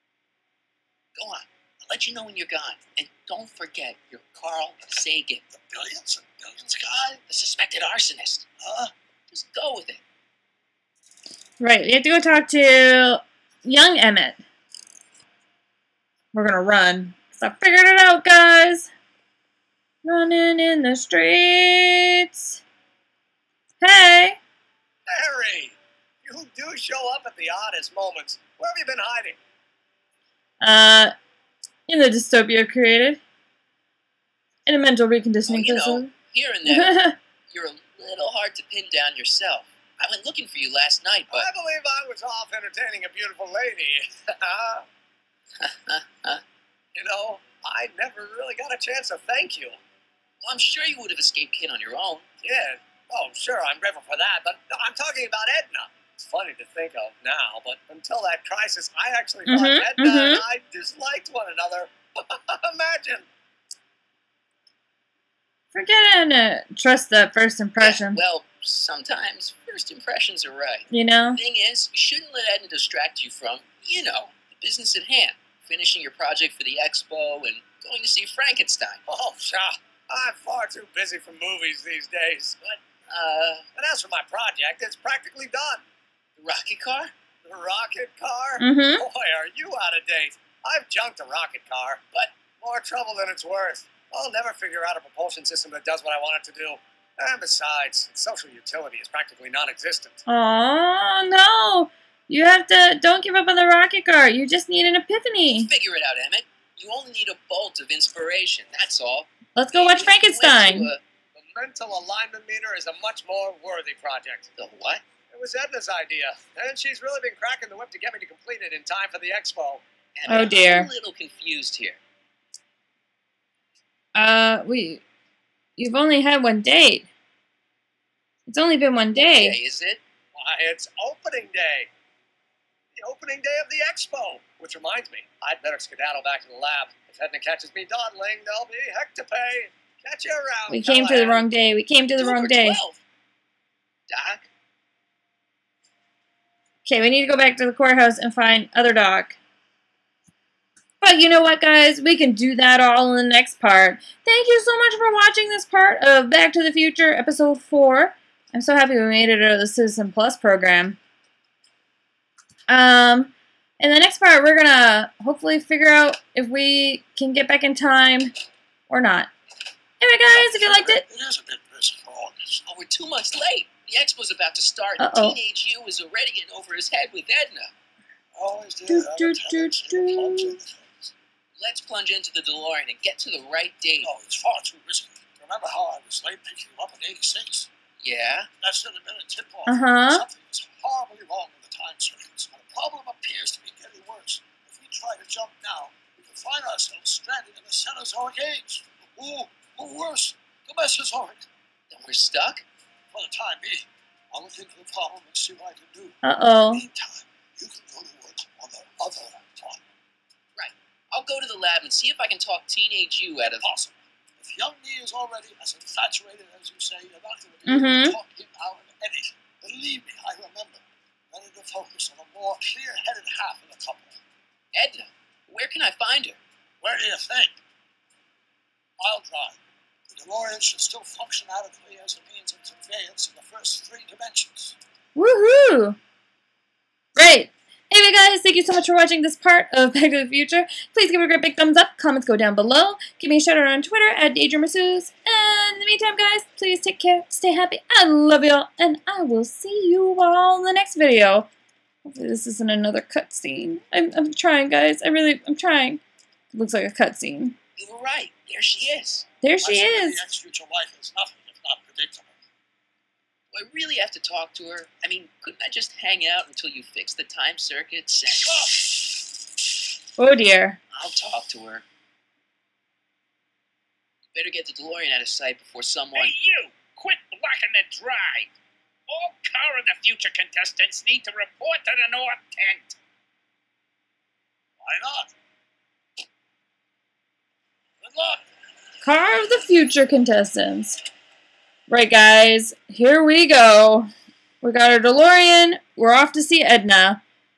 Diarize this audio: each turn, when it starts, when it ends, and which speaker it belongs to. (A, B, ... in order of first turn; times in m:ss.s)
0:01.2-0:05.4 A
0:05.5-0:07.2 B
0:07.3-0:08.4 A
0:08.6-0:08.9 B
0:09.3-0:10.0 A
0:11.6-0:14.4 C
0:16.3-0:18.9 C
0:20.0-0:22.4 C
0:23.8-0:24.4 C
0:25.1-0:29.4 D
0:30.6-0:31.1 C
0:31.9-0:33.2 C
0:34.6-0:36.1 C
0:35.5-0:41.5 A
0:36.6-0:37.2 C
0:41.3-0:44.8 D
0:45.6-0:46.4 A
0:46.9-0:49.8 D
0:50.4-0:52.2 A
0:52.4-1:03.3 D
0:59.4-1:00.4 C
1:05.7-1:08.2 C
1:07.8-1:19.0 A
1:10.9-1:11.4 C
1:19.1-1:22.6 D
1:22.6-1:23.7 A
1:23.7-1:25.8 D
1:26.4-1:27.1 A
1:27.4-1:32.0 D
1:28.6-1:29.0 C
1:32.6-1:40.2 D
1:40.3-1:45.7 C
1:45.5-1:51.0 A
1:49.5-1:50.9 C
1:51.3-1:54.5 D
1:54.6-1:55.0 A
1:55.3-1:59.8 D
2:00.1-2:02.0 A
2:00.3-2:00.9 C
2:04.1-2:05.0 C
2:05.8-2:07.1 C
2:08.5-2:09.6 C
2:09.2-2:10.0 A
2:10.3-2:11.9 D
2:12.9-2:21.5 D
2:20.7-2:22.8 C
2:22.2-2:23.0 A
2:24.1-2:24.5 A
2:26.8-2:29.4 C
2:31.0-2:41.0 C
2:42.7-2:48.3 C
2:48.9-2:49.3 C
2:50.0-2:51.0 C
2:50.3-2:52.6 B
2:52.7-2:57.7 A
2:55.0-2:55.4 C
2:58.3-3:01.1 B
2:58.9-3:00.6 C
3:01.6-3:04.1 A
3:04.0-3:07.7 B
3:08.0-3:08.5 A
3:08.6-3:21.4 B
3:09.7-3:10.2 C
3:21.9-3:22.6 A
3:23.1-3:29.8 B
3:26.2-3:26.8 C
3:30.6-3:33.6 A
3:33.6-3:44.2 B
3:37.6-3:38.2 C
3:44.7-3:46.4 A
3:46.8-3:47.6 B
3:49.0-3:54.8 B
3:55.1-3:56.0 C
3:57.1-4:11.5 C
4:12.0-4:16.0 C
4:16.5-4:17.6 C
4:17.8-4:19.3 A
4:19.4-4:20.2 C
4:19.6-4:22.4 B
4:23.5-4:28.8 A
4:28.4-4:28.8 B
4:30.2-4:30.8 C
4:30.9-4:31.8 A
4:34.3-4:36.4 A
4:36.1-4:38.5 E
4:39.1-4:43.0 E
4:44.8-4:45.3 B
4:48.0-4:48.4 B
4:49.0-4:51.0 C
4:51.9-4:54.1 C
4:54.6-4:57.2 C